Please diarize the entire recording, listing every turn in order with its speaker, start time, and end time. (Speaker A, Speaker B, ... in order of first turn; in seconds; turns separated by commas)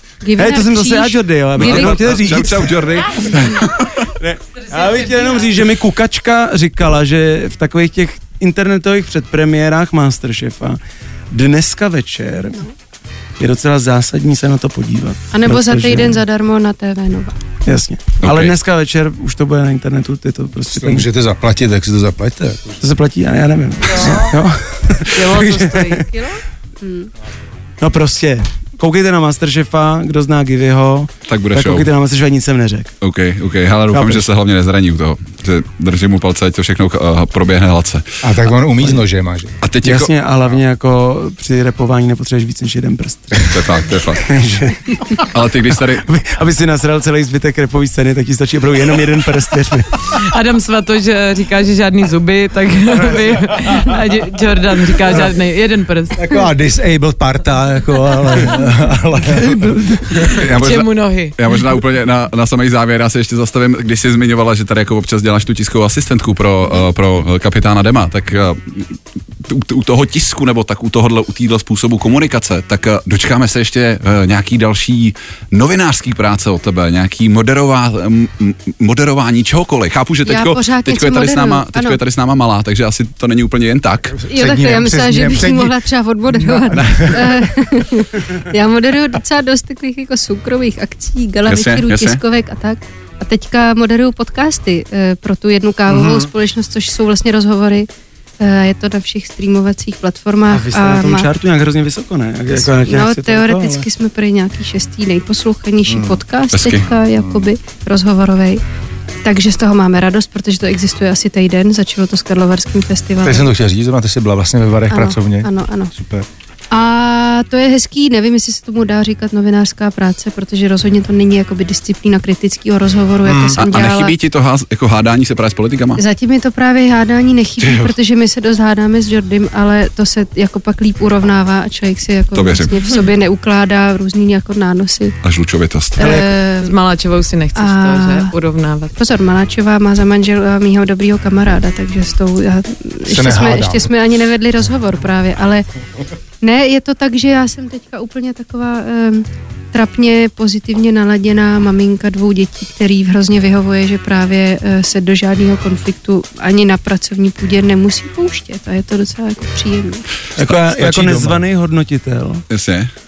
Speaker A: 0.2-1.9, Speaker B: 0.4-3.2, Speaker C: 1.5-4.1, Speaker B: 4.1-10.8, Speaker D: 4.8-5.4, Speaker B: 11.3-12.6, Speaker B: 13.4-16.2, Speaker A: 15.3-17.4, Speaker B: 17.6-21.1, Speaker C: 18.2-18.6, Speaker E: 20.7-22.8, Speaker B: 22.8-26.0, Speaker D: 25.1-26.3, Speaker A: 26.8-27.1, Speaker B: 27.8-32.9, Speaker C: 31.3-31.9, Speaker C: 33.0-38.2, Speaker B: 33.9-34.3, Speaker E: 38.2-39.5, Speaker C: 39.6-40.1, Speaker B: 39.8-43.6, Speaker C: 43.4-44.3, Speaker B: 44.2-45.3, Speaker C: 45.1-46.0, Speaker B: 46.0-50.2, Speaker D: 50.1-56.4, Speaker E: 56.2-60.4, Speaker B: 59.2-60.1, Speaker C: 60.3-84.2, Speaker D: 60.3-61.4, Speaker A: 80.2-82.0, Speaker E: 84.1-87.3, Speaker A: 84.3-97.9, Speaker C: 86.7-87.2, Speaker C: 91.5-92.2, Speaker E: 95.9-96.3, Speaker A: 98.4-101.3, Speaker B: 100.5-103.8, Speaker A: 102.5-108.6, Speaker E: 105.9-106.2, Speaker C: 106.5-106.9, Speaker E: 107.2-107.5, Speaker A: 109.2-113.5, Speaker E: 113.2-116.3, Speaker A: 114.9-115.9, Speaker A: 116.7-124.1, Speaker E: 123.2-123.6, Speaker C: 123.6-126.0, Speaker A: 126.0-135.2, Speaker C: 127.6-127.9, Speaker C: 132.3-132.7, Speaker C: 135.2-136.2, Speaker A: 136.0-136.7, Speaker B: 136.0-136.2, Speaker D: 136.5-138.9, Speaker A: 137.5-138.3, Speaker A: 139.0-145.7, Speaker E: 143.1-143.9, Speaker A: 146.4-160.1, Speaker B: 160.3-162.4, Speaker E: 160.4-161.4, Speaker C: 162.5-162.9